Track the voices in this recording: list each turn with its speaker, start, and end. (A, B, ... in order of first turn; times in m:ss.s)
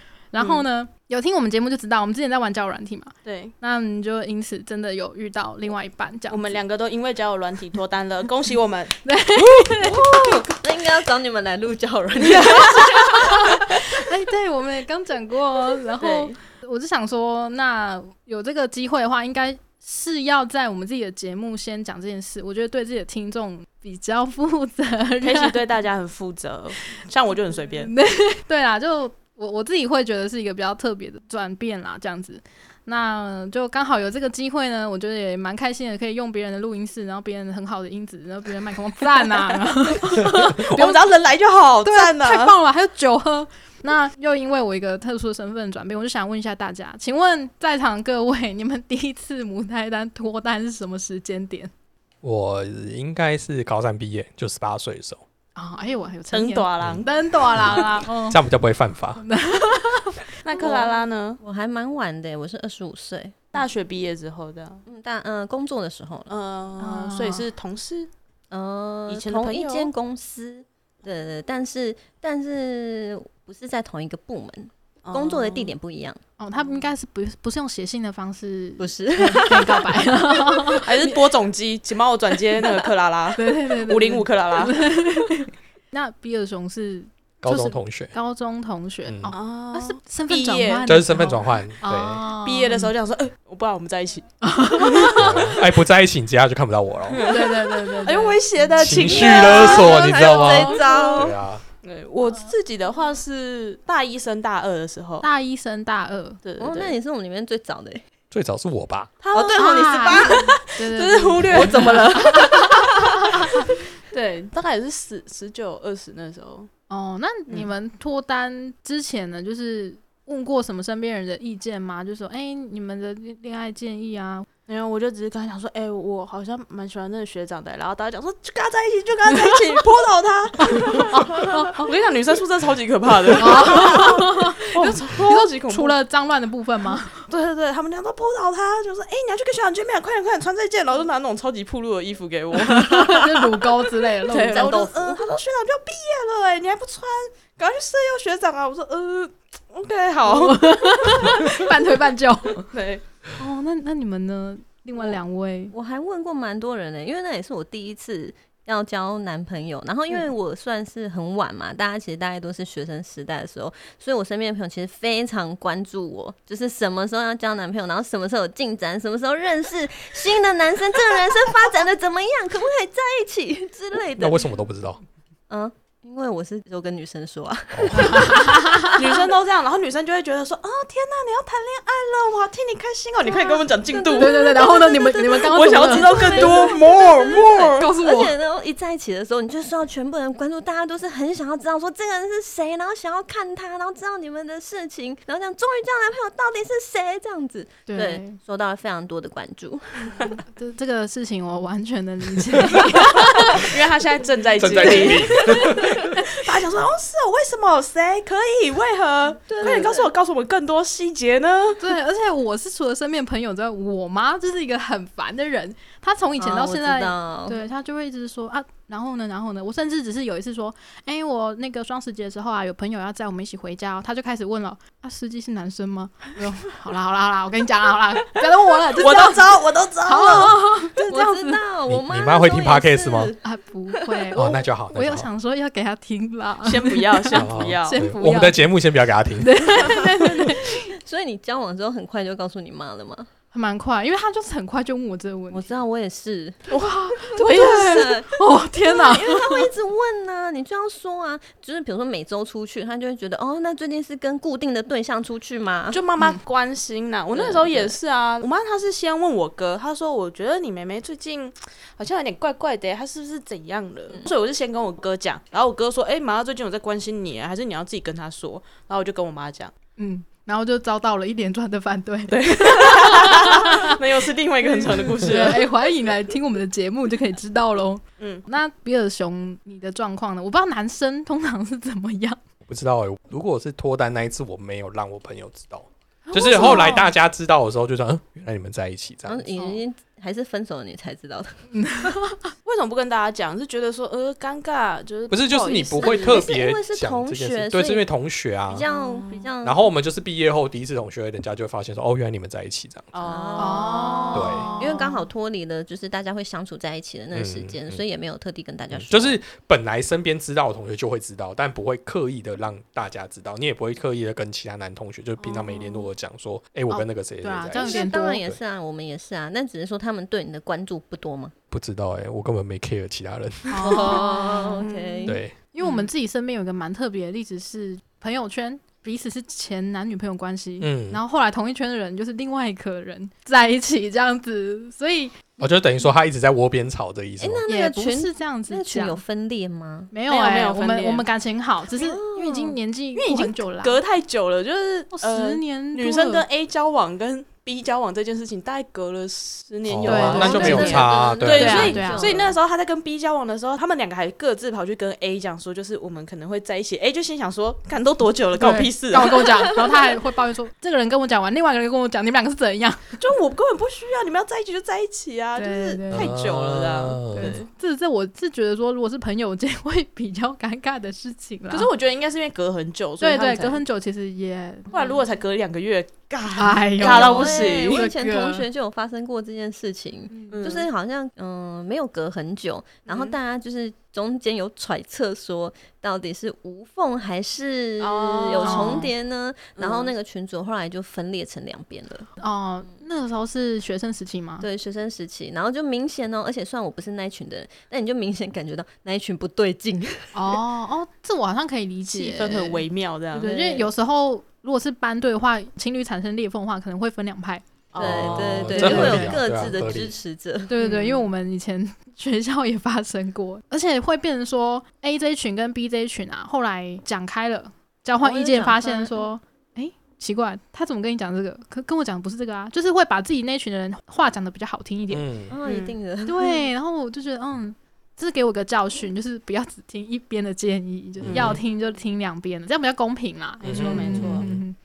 0:00.3-0:06.6 A
0:00.4-0:00.6 B
0:03.2-0:03.5 B
0:06.3-0:09.0 B
0:09.0-0:10.0 A
0:09.8-0:13.6 C
0:12.2-0:25.6 A
0:25.2-0:27.9 B
0:27.8-0:41.1 A
0:40.2-0:42.6 B
0:41.8-0:51.7 A
0:52.2-0:55.2 D
0:55.6-0:58.4 A
0:56.3-0:57.1 B
0:56.8-0:59.2 D
0:59.2-1:00.7 A
1:00.4-1:01.4 B
1:00.6-1:03.6 C
1:03.5-1:04.8 B
1:04.9-1:06.3 C
1:06.3-1:08.1 B
1:06.8-1:07.5 A
1:08.5-1:16.2 C
1:09.1-1:09.9 B
1:15.0-1:15.7 B
1:16.4-1:21.3 A
1:18.8-1:20.1 C
1:20.8-1:24.8 B
1:23.4-1:32.9 A
1:27.4-1:28.1 D
1:29.1-1:29.3 D
1:29.3-1:30.9 B
1:30.8-1:32.3 D
1:32.4-1:34.3 B
1:34.4-1:35.6 A
1:35.2-1:37.2 D
1:37.1-1:45.3 B
1:37.3-1:38.4 A
1:38.8-1:41.6 D
1:39.0-1:41.4 C
1:45.2-1:46.4 A
1:46.4-1:47.0 B
1:46.6-1:48.0 C
1:48.3-1:49.1 D
1:49.2-1:56.7 B
1:49.3-1:50.4 C
1:49.5-1:53.7 A
1:51.5-1:52.3 C
1:56.9-2:04.5 A
2:04.7-2:16.0 B
2:10.7-2:11.9 A
2:13.4-2:17.3 A
2:17.3-2:31.5 B
2:22.6-2:24.9 A
2:24.3-2:25.3 C
2:30.3-2:32.6 A
2:32.7-2:33.0 B
2:33.4-2:35.8 A
2:35.7-2:54.5 C
2:54.2-2:55.0 D
2:55.5-2:59.0 C
2:57.7-2:58.4 D
2:57.9-2:59.0 A
2:59.0-3:04.3 B
3:03.2-3:20.3 C
3:04.2-3:06.7 A
3:05.4-3:07.9 B
3:07.8-3:08.4 A
3:17.9-3:18.4 A
3:20.0-3:23.7 A
3:23.5-3:31.8 B
3:24.6-3:26.2 D
3:25.0-3:25.8 A
3:29.5-3:30.1 C
3:31.8-3:51.6 A
3:36.4-3:37.6 C
3:49.0-3:50.6 B
3:51.0-3:53.4 C
3:51.9-3:53.3 D
3:53.4-3:58.6 A
3:53.9-3:54.3 C
3:54.4-3:55.3 D
3:56.6-3:58.1 B
3:57.3-3:59.8 D
3:59.4-4:00.9 A
4:00.7-4:03.3 C
4:03.5-4:05.7 A
4:05.5-4:06.7 C
4:06.7-4:08.2 B
4:07.3-4:08.3 C
4:07.5-4:09.7 A
4:08.8-4:16.0 C
4:15.9-4:29.7 B
4:17.3-4:18.0 C
4:30.0-4:33.9 A
4:32.3-4:35.7 B
4:34.6-4:42.4 A
4:38.2-4:38.4 B
4:42.7-4:49.5 D
4:46.3-4:47.1 A
4:49.2-4:51.6 C
4:51.7-4:52.5 A
4:52.6-4:56.5 B
4:55.3-4:58.9 D
4:56.0-4:58.1 C
4:58.7-4:59.9 C
4:58.8-4:59.5 B
4:59.6-5:03.1 D
5:03.1-5:04.2 B
5:03.2-5:09.4 C
5:03.6-5:05.2 A
5:04.3-5:04.7 D
5:07.3-5:08.0 D
5:08.9-5:18.6 D
5:15.4-5:16.0 C
5:16.9-5:18.4 A
5:17.7-5:21.5 C
5:21.7-5:24.1 D
5:23.7-5:24.7 A
5:23.8-5:25.4 C
5:24.0-5:25.1 B
5:25.3-5:25.6 D
5:25.3-5:35.5 A
5:30.8-5:31.2 D
5:35.6-5:37.6 D
5:37.4-5:40.1 C
5:37.7-5:39.2 A
5:40.1-5:44.0 A
5:40.3-5:41.3 B
5:41.9-5:42.8 C
5:43.2-5:59.8 B
5:45.1-5:46.5 A
5:49.9-5:52.0 D
5:50.0-5:52.4 A
5:50.2-5:52.6 C
5:58.6-6:03.2 A
6:03.2-6:07.7 B
6:05.6-6:06.3 A
6:06.1-6:07.6 D
6:07.3-6:11.9 A
6:11.7-6:13.8 B
6:13.2-6:15.1 A
6:14.9-6:18.1 B
6:16.6-6:18.7 A
6:17.0-6:32.3 C
6:20.3-6:20.6 A
6:20.5-6:20.9 B
6:23.1-6:23.4 B
6:28.0-6:29.1 B
6:28.6-6:29.1 A
6:29.8-6:30.1 B
6:32.4-6:34.7 A
6:34.6-6:40.6 C
6:40.3-6:47.6 A
6:42.1-6:43.5 B
6:43.4-6:43.9 C
6:47.9-6:49.0 B
6:48.0-6:51.0 C
6:48.0-6:50.2 D
6:48.7-6:49.4 A
6:50.7-7:05.3 A
6:50.8-6:51.1 B
6:58.2-6:59.3 C
7:05.1-7:05.5 D
7:05.5-7:06.7 C
7:05.6-7:06.0 B
7:06.3-7:14.8 A
7:11.2-7:11.6 D
7:13.6-7:14.5 B
7:13.6-7:14.6 D